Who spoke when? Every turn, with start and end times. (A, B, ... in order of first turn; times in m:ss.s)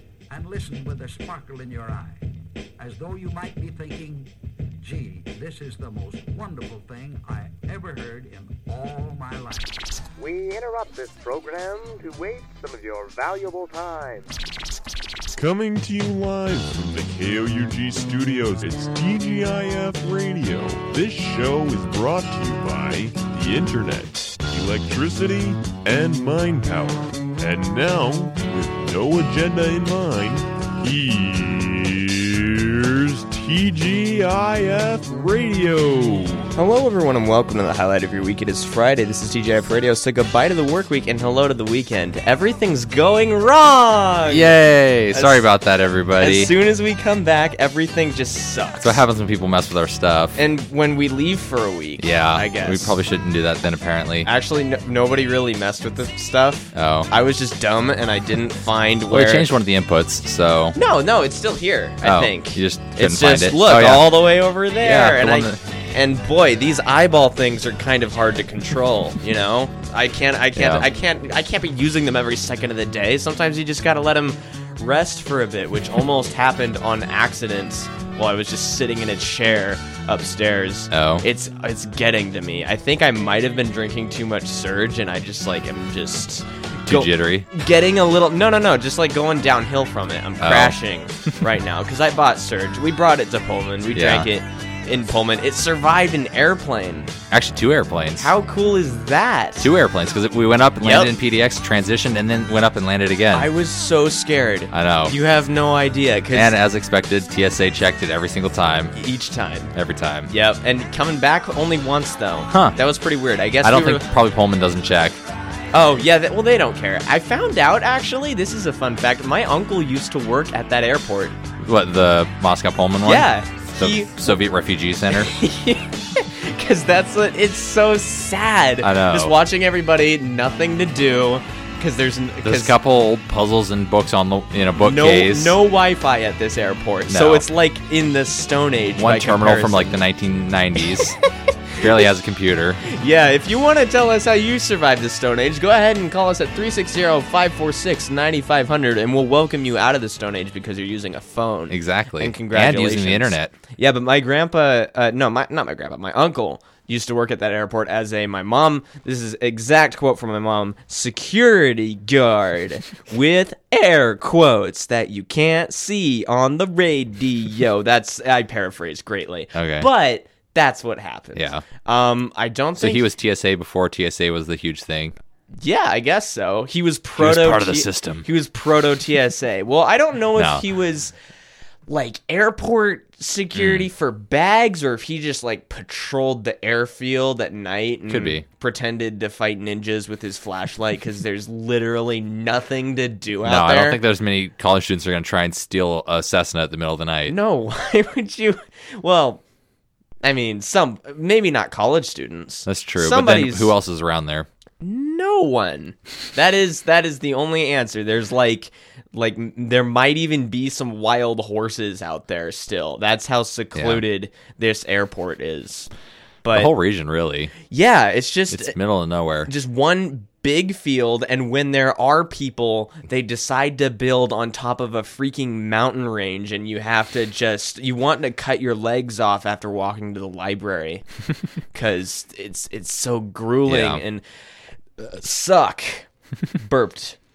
0:00.3-0:02.2 A
0:02.8-0:04.3 A
0:04.8-0:09.8 A
0:10.2-0:14.3 B
0:15.4-0:36.5 C
0:36.6-0:45.5 D
0:44.3-0:46.5 E
0:46.2-0:49.0 D
0:48.8-0:50.4 E
0:50.4-0:53.0 D
0:52.0-0:54.3 E
0:54.2-0:59.5 D
0:56.7-0:57.1 E
0:59.1-1:00.8 E
1:00.8-1:37.1 D
1:02.0-1:04.3 E
1:04.8-1:05.6 E
1:10.6-1:10.9 E
1:20.9-1:21.2 E
1:26.9-1:27.5 E
1:30.4-1:30.8 E
1:33.9-1:34.3 E
1:37.3-1:38.3 E
1:38.2-1:39.7 D
1:39.6-1:43.5 E
1:40.8-1:41.1 D
1:43.3-1:46.6 D
1:44.7-1:45.2 E
1:46.3-1:48.9 E
1:48.9-1:49.7 D
1:49.7-1:50.3 E
1:50.3-1:54.1 D
1:52.5-1:52.8 E
1:53.6-1:55.2 E
1:55.7-2:01.4 D
2:01.6-2:05.3 E
2:03.0-2:04.4 D
2:05.1-2:12.7 D
2:08.8-2:09.4 E
2:12.4-2:15.6 E
2:14.8-2:20.0 D
2:17.1-2:17.4 E
2:19.0-2:21.2 E
2:21.8-2:22.8 E
2:22.8-2:53.1 D
2:31.7-2:33.6 E
2:49.5-2:49.9 E
2:51.4-2:51.6 E
2:52.8-2:55.2 E
2:55.6-3:01.2 D
2:57.2-2:58.3 E
3:00.4-3:00.6 E
3:01.9-3:14.0 D
3:03.6-3:03.9 E
3:08.1-3:08.4 E
3:13.4-3:17.4 E
3:17.3-3:19.4 D
3:20.2-3:23.7 D
3:22.7-3:24.5 E
3:24.8-3:35.9 D
3:33.8-3:34.0 E
3:36.4-3:36.7 D
3:36.5-3:37.6 E
3:37.6-3:38.8 D
3:38.5-3:39.5 E
3:39.5-3:51.0 D
3:51.7-3:54.2 D
3:53.7-3:54.0 E
3:55.0-3:56.1 D
3:56.6-3:57.2 D